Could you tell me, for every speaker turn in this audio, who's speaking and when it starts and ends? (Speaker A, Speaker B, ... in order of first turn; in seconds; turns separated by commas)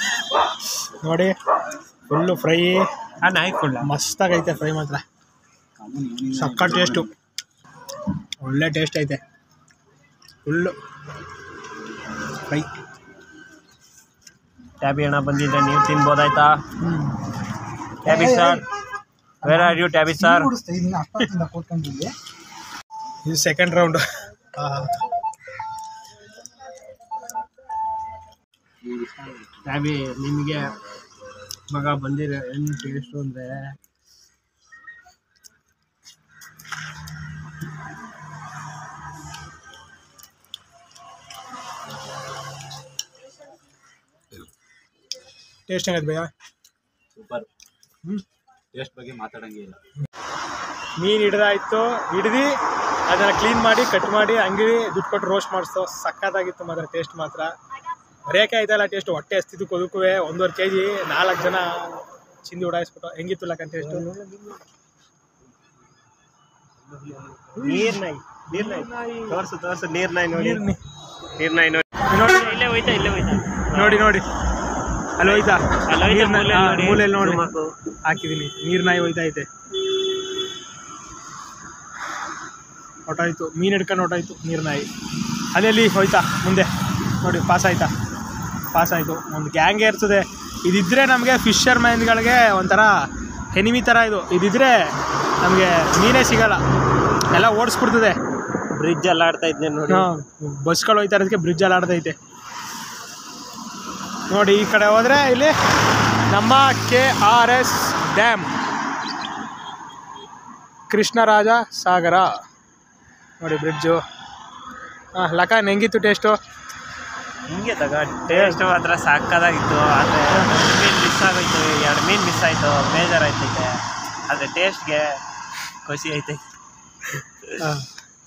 Speaker A: 1.0-1.4, Speaker A: 2.1-2.9, Speaker B: 3.2-3.9, Speaker A: 3.8-5.0, Speaker C: 5.8-7.1, Speaker A: 6.3-7.1, Speaker A: 8.4-9.2, Speaker A: 10.4-10.8, Speaker B: 14.8-16.6, Speaker B: 18.0-18.6, Speaker B: 19.4-20.6, Speaker A: 23.2-25.0, Speaker C: 28.9-29.4, Speaker B: 29.6-30.8, Speaker B: 31.7-33.7, Speaker A: 45.7-46.3, Speaker C: 47.2-47.5, Speaker C: 48.7-49.8, Speaker A: 51.0-52.5, Speaker A: 53.1-57.5, Speaker A: 58.3-64.1, Speaker B: 63.8-64.6, Speaker B: 66.8-70.6, Speaker A: 67.6-69.4, Speaker A: 70.3-70.8, Speaker B: 71.4-74.1, Speaker A: 72.0-73.0, Speaker A: 73.7-74.3, Speaker A: 75.2-77.4, Speaker B: 75.2-77.7, Speaker A: 78.1-79.5, Speaker A: 83.1-84.9, Speaker A: 85.5-86.7, Speaker A: 87.2-87.9, Speaker A: 88.7-92.9, Speaker A: 93.5-94.9, Speaker A: 95.4-96.6, Speaker A: 97.3-98.2, Speaker B: 98.8-100.1, Speaker A: 99.9-102.2, Speaker A: 104.3-105.5, Speaker A: 106.3-108.5, Speaker A: 110.9-112.3, Speaker A: 113.4-114.0, Speaker A: 115.2-116.4, Speaker B: 117.5-125.2, Speaker A: 118.3-118.6, Speaker B: 125.8-126.4, Speaker A: 127.6-127.9